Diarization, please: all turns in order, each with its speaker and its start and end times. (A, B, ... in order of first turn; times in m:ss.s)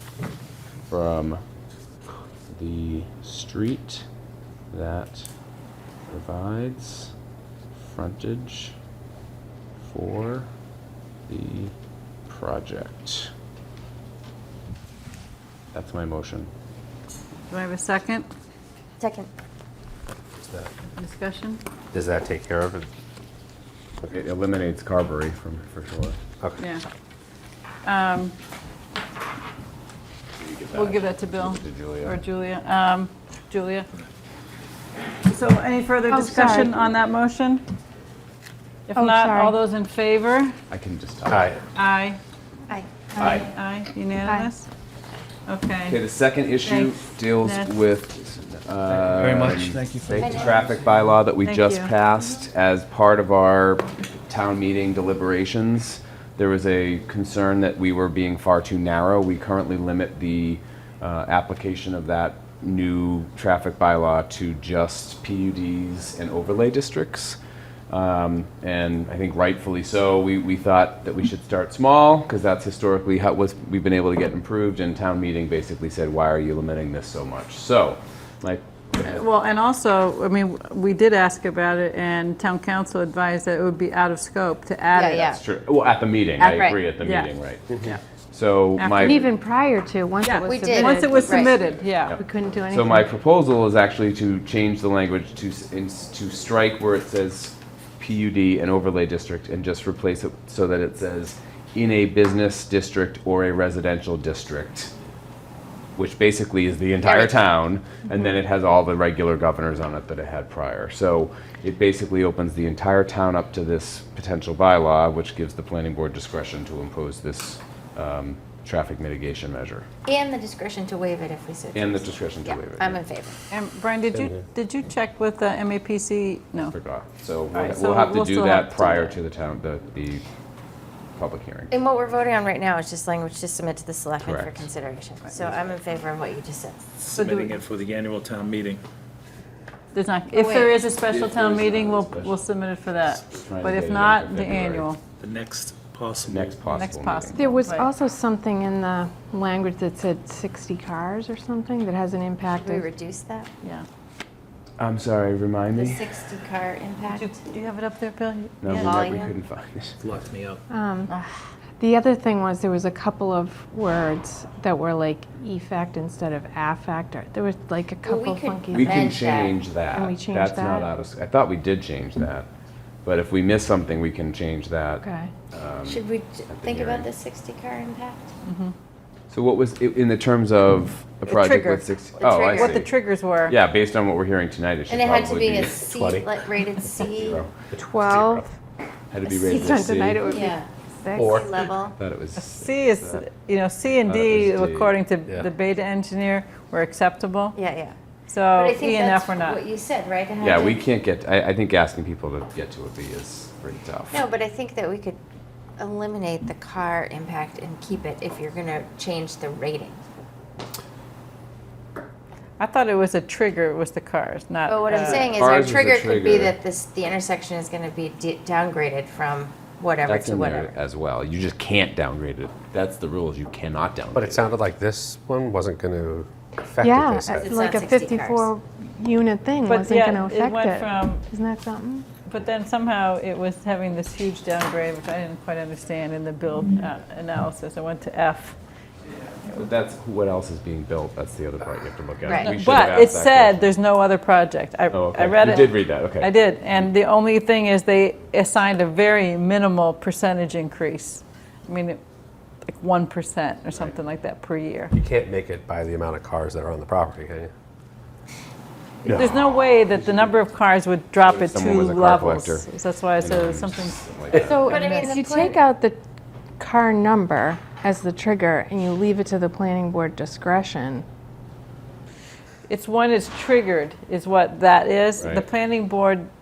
0:00.9-0:01.4 A
0:02.5-0:04.0 A
0:04.7-0:05.3 A
0:06.1-0:07.1 A
0:07.8-0:08.7 A
0:09.8-0:10.5 A
0:11.3-0:11.7 A
0:12.3-0:13.3 A
0:15.7-0:16.5 A
0:17.5-0:18.3 B
0:19.0-0:19.3 C
0:20.4-0:20.7 D
0:21.0-0:21.6 B
0:21.9-0:22.9 D
0:24.1-0:26.2 A
0:27.8-0:28.3 B
0:30.4-0:32.2 A
0:30.7-0:33.9 B
0:35.3-0:37.6 B
0:36.1-0:36.7 E
0:38.9-0:40.6 B
0:39.0-0:39.6 E
0:40.7-0:41.5 A
0:41.3-0:41.6 D
0:41.7-0:42.2 B
0:42.7-0:43.0 C
0:43.2-0:43.4 E
0:43.2-0:44.7 B
0:44.2-0:44.5 E
0:45.5-0:46.0 B
0:45.8-1:07.4 A
0:46.6-0:47.8 B
0:49.1-0:50.3 F
0:50.1-0:50.6 C
0:51.4-0:51.9 B
1:07.9-1:19.2 A
1:19.0-1:25.4 B
1:24.9-1:25.4 C
1:25.3-1:27.7 A
1:26.4-1:26.8 C
1:27.0-1:28.0 B
1:28.3-1:29.2 A
1:28.8-1:29.2 B
1:29.0-1:31.5 E
1:30.2-1:32.2 B
1:30.4-1:31.6 C
1:31.4-1:44.9 A
1:32.2-1:33.1 E
1:46.0-1:59.9 A
1:47.0-1:47.4 C
2:00.0-2:03.4 C
2:01.7-2:03.0 A
2:03.5-2:06.7 B
2:04.1-2:04.4 D
2:06.6-2:10.2 A
2:07.5-2:09.2 B
2:11.2-2:11.7 A
2:11.7-2:16.8 C
2:14.2-2:14.7 A
2:17.0-2:18.8 F
2:17.1-2:17.6 B
2:19.9-2:25.0 B
2:20.3-2:20.8 C
2:20.9-2:22.3 A
2:23.2-2:24.9 A
2:25.2-2:26.6 F
2:26.3-2:27.5 A
2:26.6-2:27.9 B
2:27.3-2:32.8 E
2:32.4-2:33.5 C
2:34.8-2:36.0 A
2:35.7-2:37.4 C
2:37.0-2:39.0 B
2:38.6-2:40.0 A
2:38.7-2:39.4 C
2:40.0-2:40.6 F
2:40.7-2:41.1 E
2:41.1-2:41.4 B
2:41.8-2:50.9 E
2:48.0-2:49.6 C
2:48.7-2:52.5 A
2:53.0-2:57.1 A
2:55.0-2:55.3 E
2:55.8-2:58.3 C
2:58.4-2:58.7 B
2:59.3-3:02.9 A
3:01.2-3:03.5 B
3:02.2-3:02.8 C
3:03.5-3:05.9 A
3:04.9-3:07.4 C
3:05.9-3:06.3 D
3:07.0-3:07.5 A
3:07.7-3:08.4 D
3:07.8-3:08.5 E
3:09.1-3:10.3 A
3:09.2-3:11.5 E
3:10.2-3:10.7 C
3:11.2-3:11.5 D
3:11.2-3:12.0 C
3:12.0-3:13.2 A
3:12.4-3:17.6 B
3:14.0-3:14.9 A
3:17.5-3:18.0 C
3:18.3-3:19.6 B
3:18.5-3:20.8 C
3:20.4-3:24.2 A
3:24.1-3:25.2 C
3:25.8-3:30.0 C
3:32.6-3:35.3 B
3:34.7-3:40.8 C
3:35.0-3:36.6 A
3:40.0-3:44.4 A
3:44.1-3:47.5 D
3:46.8-3:52.1 E
3:47.4-3:48.5 C
3:49.6-3:51.3 B
3:52.2-3:58.6 B
3:59.4-4:03.7 A
4:02.2-4:02.6 C
4:02.4-4:12.0 B
4:04.9-4:06.3 A
4:12.6-4:14.9 B
4:14.9-4:17.5 D
4:19.0-4:20.3 D
4:19.0-4:24.0 B
4:21.2-4:22.7 A
4:23.2-4:24.6 A
4:24.3-4:24.6 D
4:24.3-4:26.0 E
4:24.4-4:25.6 C
4:26.6-4:31.0 E
4:32.7-4:36.3 B
4:35.2-4:35.4 A